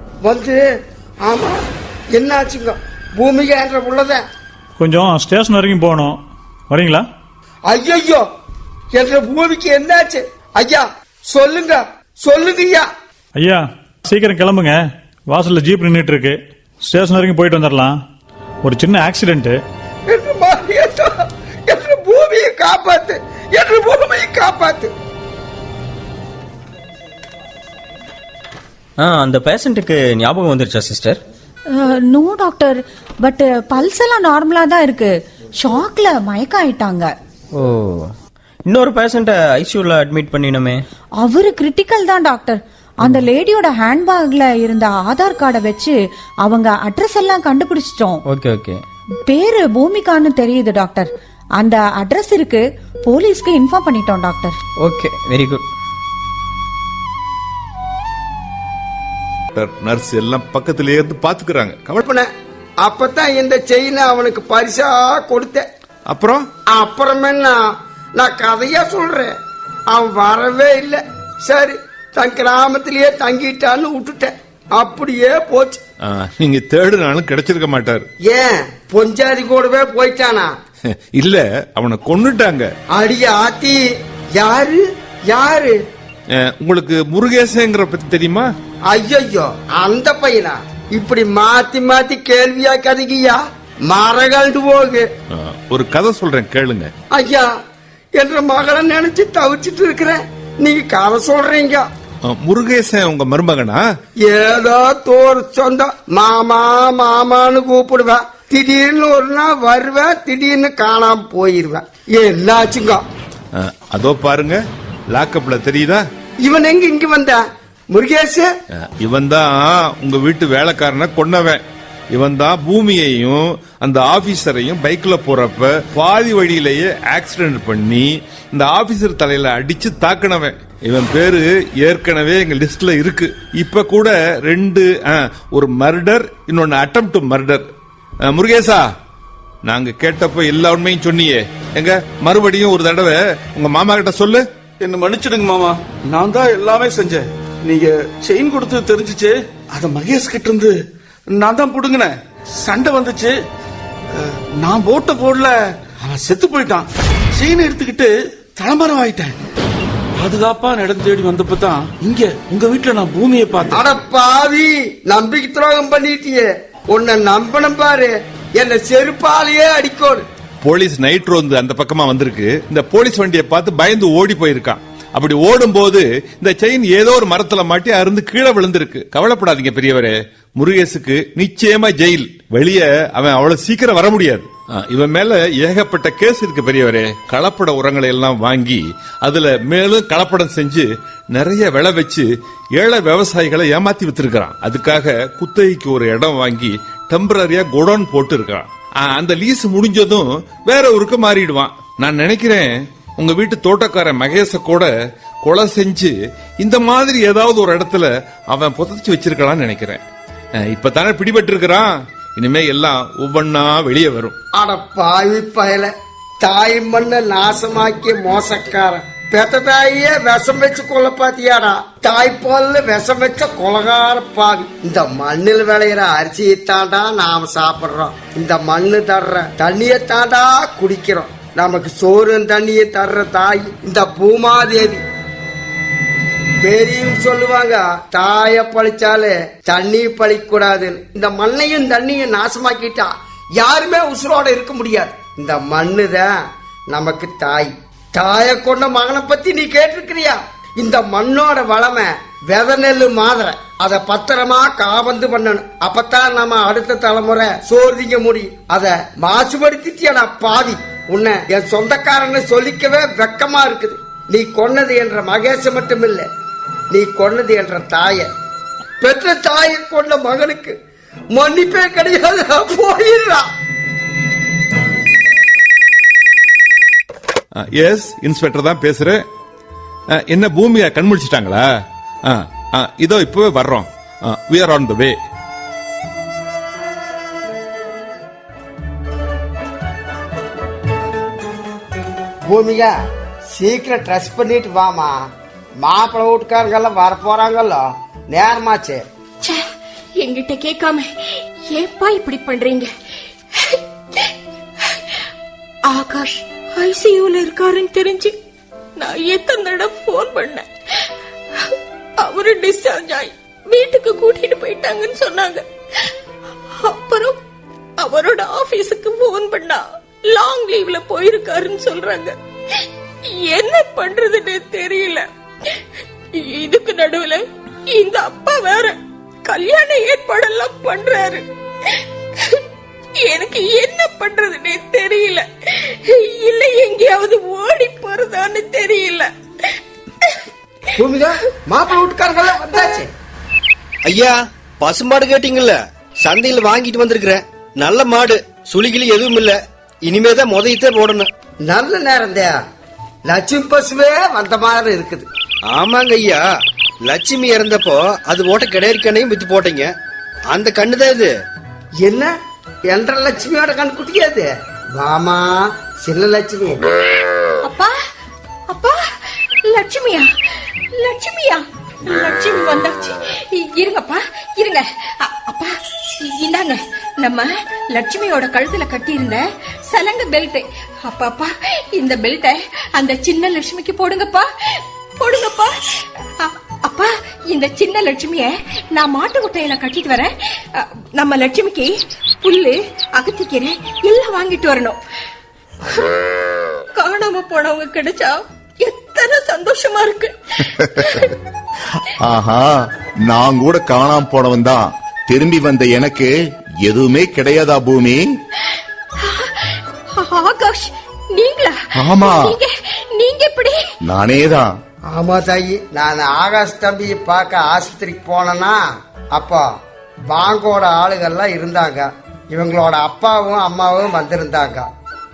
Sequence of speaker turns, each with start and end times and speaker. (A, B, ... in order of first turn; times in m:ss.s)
0:00.2-0:00.6 A
0:01.2-0:01.6 A
0:02.1-0:04.2 A
0:04.8-0:07.1 B
0:07.7-0:08.2 A
0:08.9-0:12.9 A
0:13.4-0:18.0 B
0:18.6-0:19.6 B
0:20.1-0:21.1 A
0:21.7-0:24.9 A
0:29.0-0:31.2 C
0:31.7-0:37.1 D
0:37.5-0:38.1 C
0:38.6-0:40.8 C
0:41.2-0:48.2 D
0:48.2-0:48.8 C
0:49.2-0:54.6 D
0:54.8-0:55.6 C
0:59.5-1:02.0 E
1:02.0-1:02.3 A
1:02.8-1:05.6 A
1:06.1-1:06.5 E
1:06.7-1:07.6 A
1:08.2-1:09.3 A
1:09.9-1:15.8 A
1:16.0-1:18.1 E
1:18.2-1:20.5 A
1:21.1-1:22.7 E
1:22.9-1:23.8 A
1:24.4-1:25.7 A
1:26.4-1:28.5 E
1:28.9-1:35.1 A
1:35.3-1:36.9 E
1:37.1-1:37.5 A
1:38.2-1:41.9 A
1:42.2-1:43.8 E
1:44.2-1:53.0 A
1:53.6-1:54.6 E
1:55.1-1:56.0 E
1:56.4-1:58.5 A
1:58.8-2:01.6 E
2:02.1-2:17.6 E
2:18.2-2:18.8 E
2:19.6-2:24.4 E
2:24.8-2:30.8 F
2:31.3-2:33.3 F
2:34.2-2:39.4 F
2:40.2-2:43.8 F
2:43.6-2:50.2 A
2:50.6-3:24.9 E
3:25.4-3:30.0 E
3:30.6-3:34.3 E
3:34.6-3:35.9 A
3:36.4-3:55.0 A
3:56.6-4:06.3 A
4:06.9-4:26.2 A
4:26.9-4:28.3 A
4:29.0-4:30.8 A
4:31.3-4:33.5 A
4:37.6-4:39.2 E
4:40.2-4:41.6 E
4:42.2-4:45.2 E
4:52.5-4:52.9 A
4:53.5-4:55.1 A
4:55.8-4:59.0 A
5:00.2-5:01.1 G
5:01.7-5:02.9 G
5:05.9-5:08.3 G
5:09.0-5:10.6 G
5:12.2-5:15.6 G
5:16.8-5:17.4 G
5:18.0-5:22.4 G
5:23.5-5:25.2 G
5:26.4-5:31.4 G
5:33.2-5:35.4 G
5:36.1-5:39.3 G
5:40.9-5:43.1 A
5:44.0-5:51.3 H
5:51.6-5:52.5 A
5:53.3-5:55.3 A
5:55.7-5:56.4 H
5:57.0-5:59.9 H
6:00.5-6:01.3 H
6:02.0-6:02.3 A
6:02.9-6:06.8 A
6:07.6-6:07.9 G
6:08.7-6:09.0 G
6:09.6-6:10.3 G
6:11.0-6:24.5 G
6:25.2-6:25.7 G
6:26.4-6:31.9 G
6:32.4-6:35.0 G
6:37.0-6:40.3 G
6:41.0-6:41.3 G
6:42.2-6:42.7 I
6:43.2-6:46.3 I
6:46.8-6:48.3 I
6:49.2-6:49.6 G
6:50.1-6:53.8 G
6:52.0-6:52.6 I
6:54.0-6:54.7 I
6:55.1-6:58.8 A
6:59.3-6:59.6 A
7:00.3-7:04.8 A